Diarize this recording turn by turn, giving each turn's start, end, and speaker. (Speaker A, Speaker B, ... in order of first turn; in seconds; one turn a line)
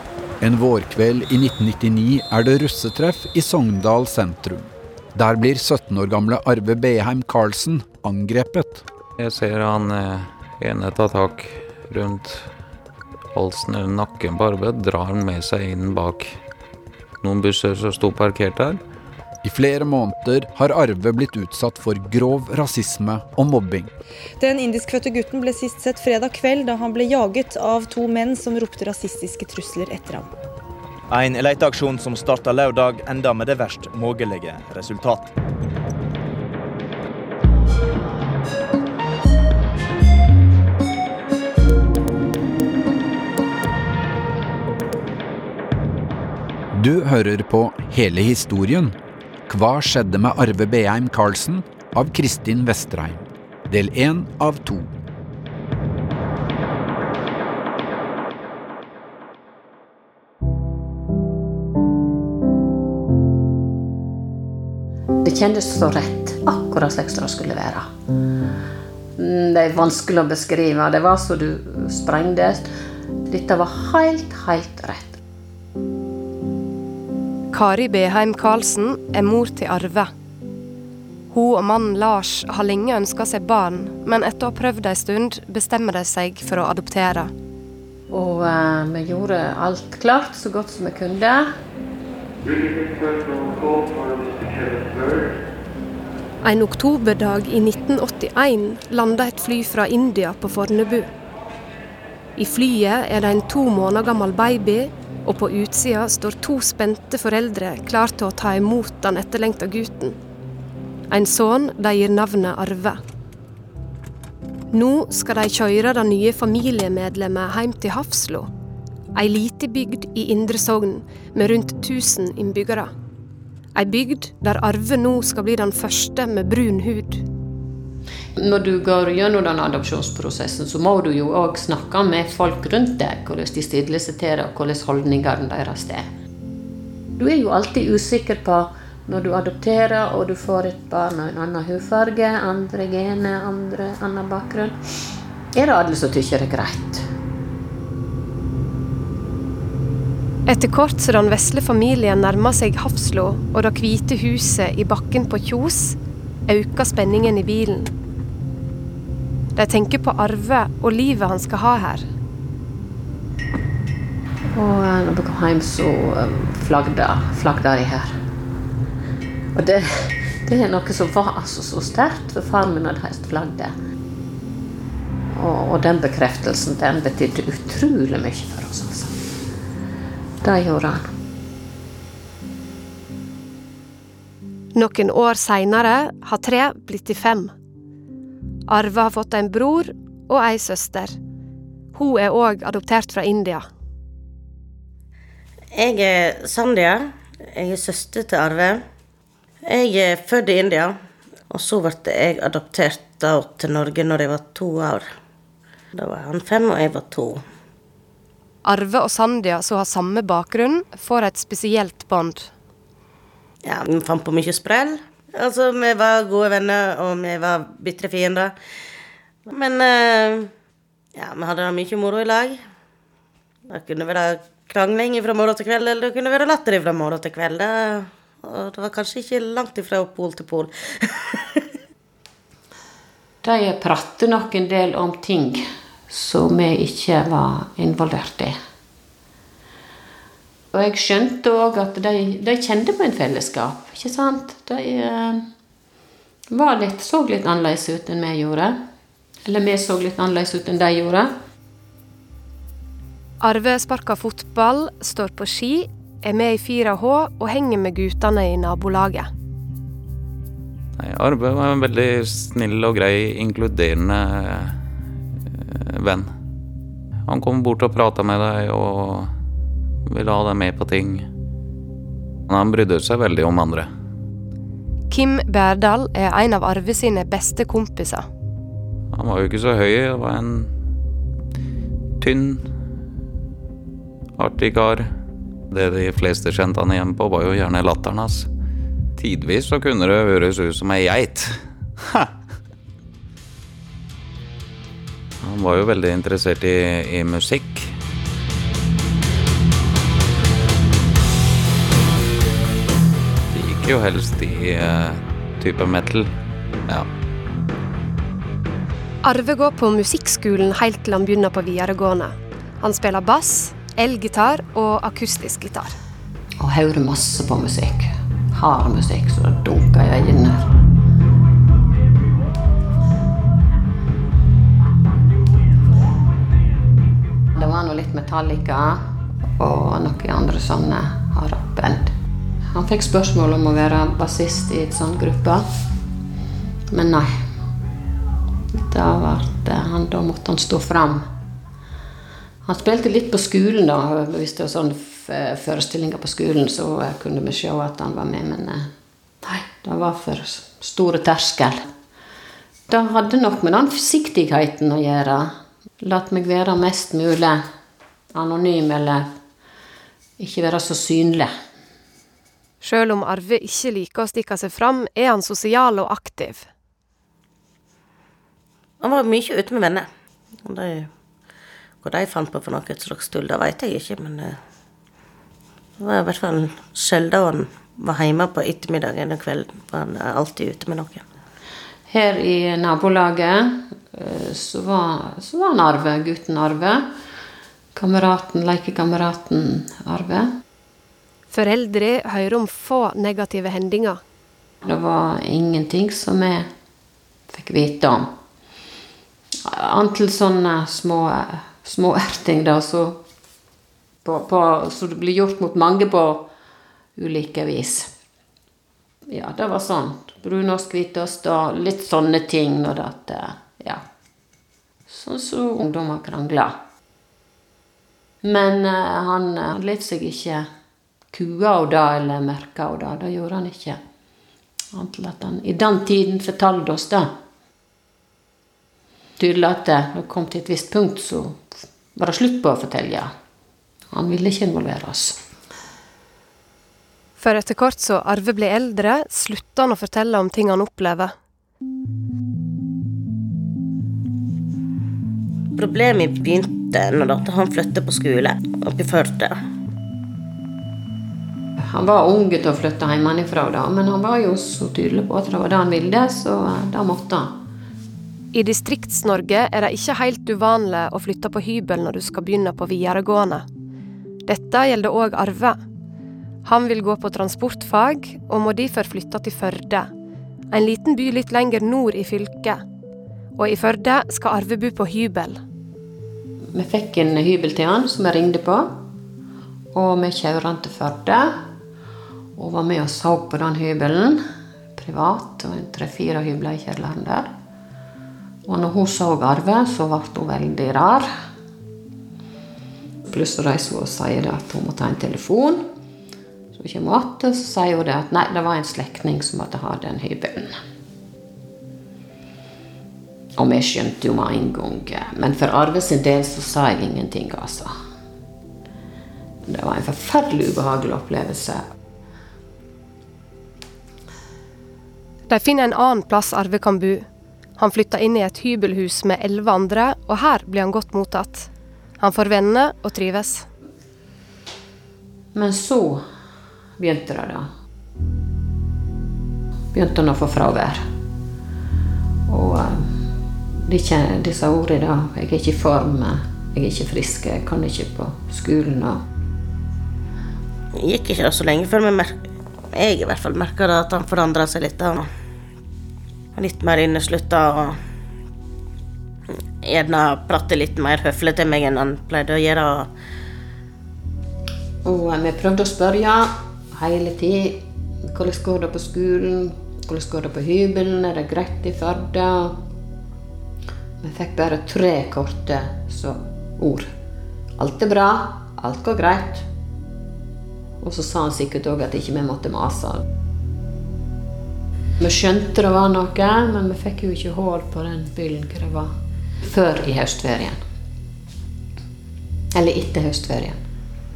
Speaker A: 0.4-4.6
Speaker A: 5.1-8.8
Speaker B: 9.2-12.5
Speaker B: 13.3-16.4
Speaker B: 17.2-18.8
Speaker A: 19.4-23.9
Speaker C: 24.4-30.3
Speaker D: 31.1-35.3
Speaker A: 46.7-54.9
Speaker E: 65.2-67.9
Speaker E: 69.2-72.7
Speaker E: 73.3-75.2
Speaker F: 77.5-80.1
Speaker F: 81.3-87.3
Speaker E: 88.1-91.5
Speaker F: 96.4-101.1
Speaker F: 102.4-110.2
Speaker F: 111.1-113.0
Speaker F: 114.7-118.5
Speaker F: 119.2-122.9
Speaker F: 123.8-127.2
Speaker E: 128.4-136.1
Speaker E: 137.2-144.8
Speaker E: 145.6-147.1
Speaker F: 150.5-156.0
Speaker F: 156.5-157.9
Speaker F: 159.6-162.1
Speaker E: 164.6-168.1
Speaker E: 169.6-173.8
Speaker E: 175.3-179.2
Speaker E: 180.4-181.1
Speaker F: 184.8-187.5
Speaker F: 188.7-191.2
Speaker F: 191.9-193.7
Speaker G: 195.8-198.8
Speaker G: 199.7-201.0
Speaker G: 201.5-205.1
Speaker G: 206.0-207.4
Speaker F: 208.7-212.5
Speaker G: 213.7-218.6
Speaker G: 219.5-220.5
Speaker G: 221.2-222.6
Speaker G: 223.7-231.6
Speaker E: 233.4-238.6
Speaker E: 240.7-245.5
Speaker E: 246.5-248.8
Speaker E: 249.5-251.3
Speaker F: 253.4-259.3
Speaker B: 261.0-264.8
Speaker B: 265.5-266.3
Speaker B: 267.3-269.3
Speaker B: 270.1-271.3
Speaker B: 272.5-273.9
Speaker F: 275.1-278.3
Speaker B: 279.1-280.7
Speaker B: 282.2-282.7
Speaker B: 284.4-285.1
Speaker B: 285.7-288.5
Speaker B: 289.2-292.3
Speaker B: 295.4-297.9
Speaker B: 303.5-306.3
Speaker F: 309.2-316.0
Speaker E: 316.6-320.6
Speaker E: 327.5-329.0
Speaker E: 329.6-332.1
Speaker E: 332.7-335.6
Speaker E: 336.9-337.3
Speaker E: 338.7-341.3
Speaker E: 342.6-348.9
Speaker E: 349.4-351.9
Speaker E: 352.9-357.6
Speaker E: 358.3-359.3
Speaker E: 360.4-361.5
Speaker F: 362.8-366.7
Speaker G: 369.0-370.1
Speaker G: 370.6-371.1
Speaker G: 372.0-374.6
Speaker G: 376.0-381.2
Speaker E: 382.1-387.1
Speaker E: 387.9-390.5
Speaker F: 391.5-394.2
Speaker E: 394.8-396.7
Speaker E: 397.5-398.3
Speaker E: 399.6-403.2
Speaker E: 404.2-406.5
Speaker E: 407.1-408.1
Speaker E: 409.3-414.0
Speaker E: 415.1-416.7
Speaker E: 418.4-420.7
Speaker E: 421.3-424.0
Speaker E: 424.9-427.3
Speaker E: 429.4-431.6
Speaker E: 432.1-433.3
Speaker E: 434.1-435.4
Speaker F: 437.4-441.3
Speaker G: 445.7-449.6
Speaker E: 451.8-457.5
Speaker F: 458.5-463.6
Speaker F: 464.5-465.8
Speaker F: 466.6-470.1
Speaker F: 470.7-472.8
Speaker F: 473.6-475.6
Speaker E: 476.7-478.9
Speaker E: 479.9-481.6
Speaker E: 482.6-484.4
Speaker E: 484.9-487.5
Speaker E: 488.6-491.3
Speaker E: 493.3-495.9
Speaker E: 496.7-500.8
Speaker E: 503.6-507.9
Speaker E: 509.7-511.8
Speaker F: 515.5-517.2
Speaker F: 517.8-523.7
Speaker E: 525.5-526.2
Speaker E: 527.0-527.7
Speaker E: 529.9-531.0
Speaker E: 532.5-533.1
Speaker E: 533.8-539.2
Speaker G: 541.0-545.3
Speaker G: 546.6-548.0
Speaker G: 549.8-553.1
Speaker E: 555.0-562.8
Speaker E: 564.2-567.1
Speaker E: 567.8-569.7
Speaker E: 571.0-573.2
Speaker E: 575.2-579.1
Speaker E: 579.7-580.8
Speaker E: 582.8-583.8